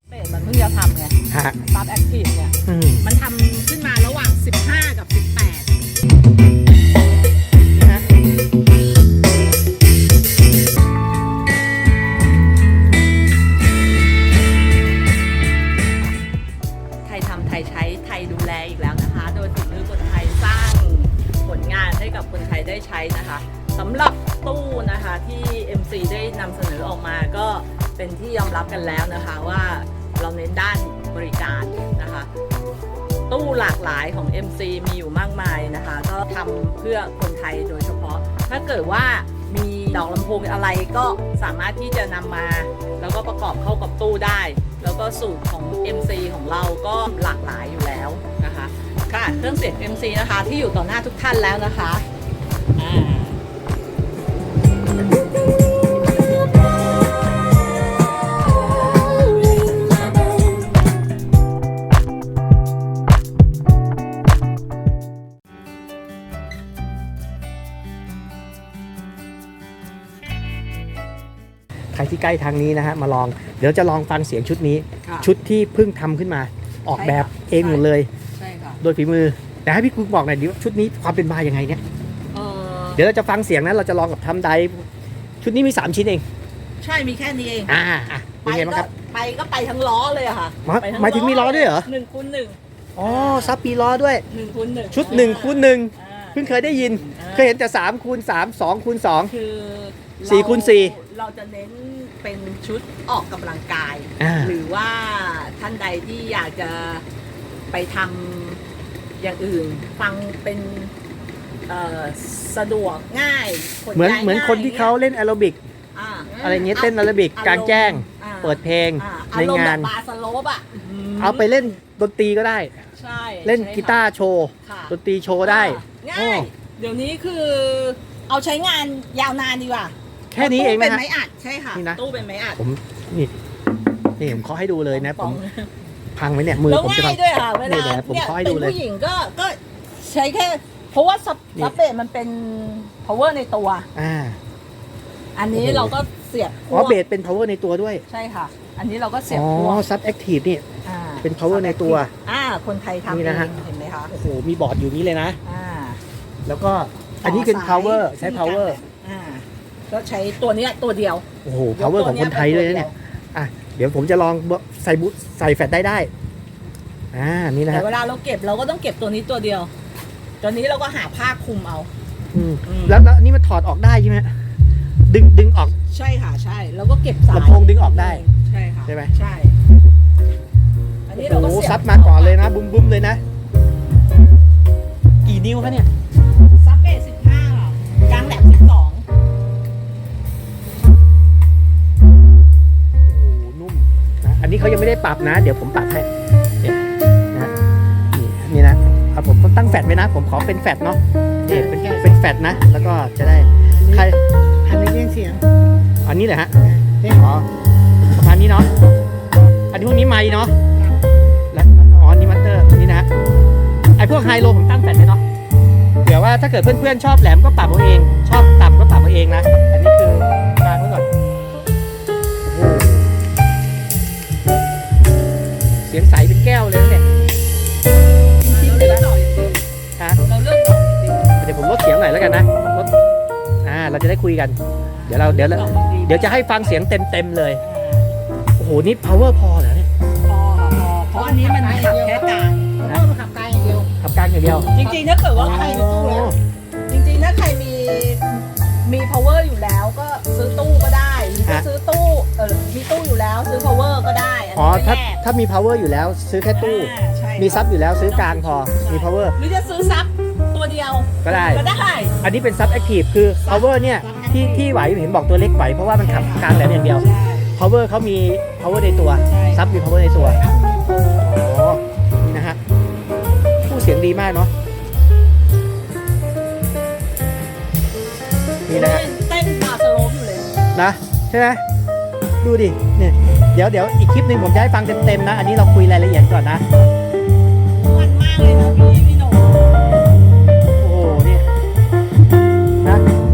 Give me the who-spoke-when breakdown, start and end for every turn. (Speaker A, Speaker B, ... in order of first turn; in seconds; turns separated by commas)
Speaker A: 0.1-5.7, Speaker B: 1.3-1.6, Speaker B: 2.7-3.0, Speaker B: 7.7-8.1, Speaker A: 17.1-32.3, Speaker A: 33.3-52.0, Speaker A: 52.8-53.4, Speaker A: 58.6-60.1, Speaker B: 71.9-78.1, Speaker A: 75.0-75.3, Speaker A: 76.9-78.8, Speaker B: 78.8-81.8, Speaker A: 82.3-83.0, Speaker B: 83.0-84.8, Speaker B: 85.4-86.2, Speaker A: 86.8-87.7, Speaker B: 87.7-88.9, Speaker A: 88.5-93.6, Speaker B: 90.7-91.9, Speaker B: 93.0-94.2, Speaker A: 94.3-97.6, Speaker B: 94.9-99.3, Speaker A: 99.3-107.0, Speaker B: 100.2-101.0, Speaker B: 104.2-104.6, Speaker A: 107.7-108.6, Speaker A: 109.2-110.9, Speaker A: 111.7-115.0, Speaker B: 113.9-115.6, Speaker A: 116.0-121.7, Speaker B: 116.4-119.9, Speaker B: 121.2-122.8, Speaker A: 123.0-124.0, Speaker B: 123.5-126.5, Speaker A: 124.6-132.6, Speaker B: 130.3-131.0, Speaker B: 131.7-132.0, Speaker B: 132.6-133.3, Speaker B: 134.2-135.4, Speaker A: 134.9-135.7, Speaker B: 136.2-138.8, Speaker A: 136.6-143.9, Speaker B: 143.9-144.4, Speaker A: 145.4-147.0, Speaker B: 145.5-145.9, Speaker B: 146.7-148.0, Speaker A: 148.1-149.8, Speaker B: 149.3-150.7, Speaker A: 150.8-154.1, Speaker B: 151.2-152.1, Speaker B: 153.1-153.6, Speaker B: 154.1-155.4, Speaker A: 155.4-156.0, Speaker B: 156.5-158.8, Speaker A: 157.2-162.9, Speaker B: 161.4-166.1, Speaker B: 167.1-167.9, Speaker A: 167.7-169.7, Speaker A: 170.4-171.9, Speaker B: 172.3-174.3, Speaker A: 172.7-173.0, Speaker B: 175.1-175.8, Speaker A: 175.9-179.6, Speaker B: 177.3-178.2, Speaker B: 178.9-179.1, Speaker A: 181.1-182.4, Speaker B: 181.2-183.2, Speaker B: 185.2-185.9, Speaker A: 186.5-189.0, Speaker B: 193.1-196.1, Speaker B: 198.1-204.2, Speaker C: 201.5-202.2, Speaker C: 204.7-205.4, Speaker B: 206.0-207.5, Speaker C: 206.6-207.2, Speaker B: 208.2-208.7, Speaker B: 209.7-210.6, Speaker B: 211.5-213.1, Speaker B: 214.0-215.2, Speaker B: 216.1-221.1, Speaker B: 222.4-223.1, Speaker B: 225.9-227.0, Speaker A: 228.4-229.6, Speaker B: 228.5-229.1, Speaker A: 230.2-231.4, Speaker B: 231.4-232.9, Speaker B: 233.6-237.6, Speaker A: 235.0-236.8, Speaker A: 237.6-238.1, Speaker B: 238.6-239.9, Speaker A: 240.3-242.8, Speaker C: 241.4-242.2, Speaker C: 242.8-243.9, Speaker B: 244.0-244.7, Speaker A: 244.7-246.3, Speaker B: 245.3-246.4, Speaker A: 246.9-255.2, Speaker B: 254.6-259.4, Speaker A: 256.6-262.2, Speaker B: 261.2-261.6, Speaker B: 262.2-270.4, Speaker A: 263.4-264.7, Speaker A: 266.0-267.5, Speaker A: 269.3-271.2, Speaker B: 271.2-272.6, Speaker B: 273.7-274.5, Speaker B: 278.7-279.0, Speaker A: 278.7-280.5, Speaker B: 280.7-281.6, Speaker B: 282.4-286.6, Speaker A: 287.7-289.8, Speaker B: 290.8-291.5